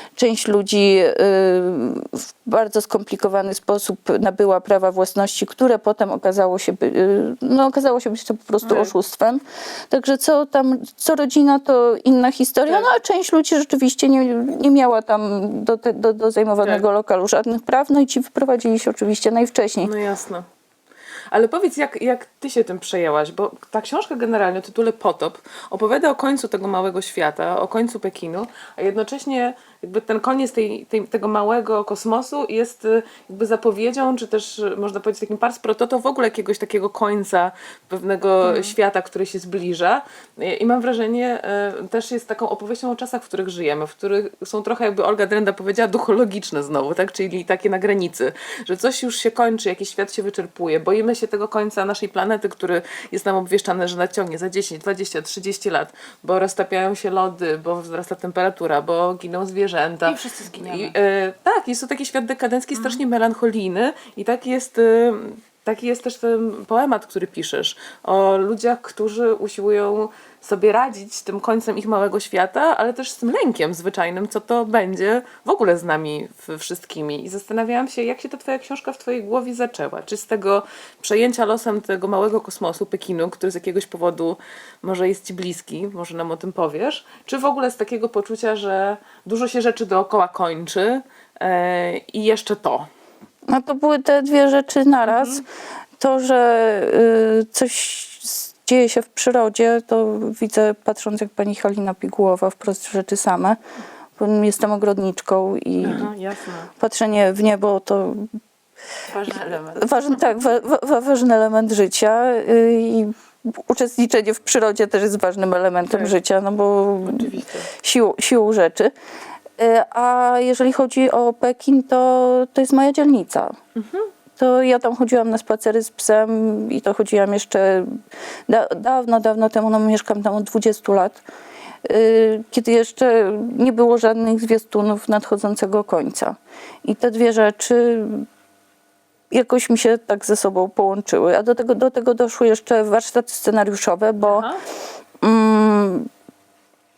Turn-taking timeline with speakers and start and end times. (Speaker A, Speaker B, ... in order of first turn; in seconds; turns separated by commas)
Speaker A: 0.1-19.9, Speaker B: 8.7-8.9, Speaker B: 19.8-20.4, Speaker B: 21.3-92.9, Speaker C: 38.4-38.7, Speaker C: 60.0-61.0, Speaker A: 93.5-95.4, Speaker B: 95.1-95.4, Speaker A: 96.0-103.6, Speaker A: 104.2-106.1, Speaker B: 105.8-106.7, Speaker A: 106.8-108.3, Speaker C: 109.1-110.2, Speaker A: 109.7-117.3, Speaker B: 115.9-116.2, Speaker B: 117.0-117.7, Speaker A: 117.8-118.9, Speaker A: 119.6-123.5, Speaker B: 123.8-124.1, Speaker A: 124.4-131.2, Speaker A: 131.8-138.3, Speaker A: 139.3-144.5, Speaker B: 144.2-144.6, Speaker A: 145.2-146.1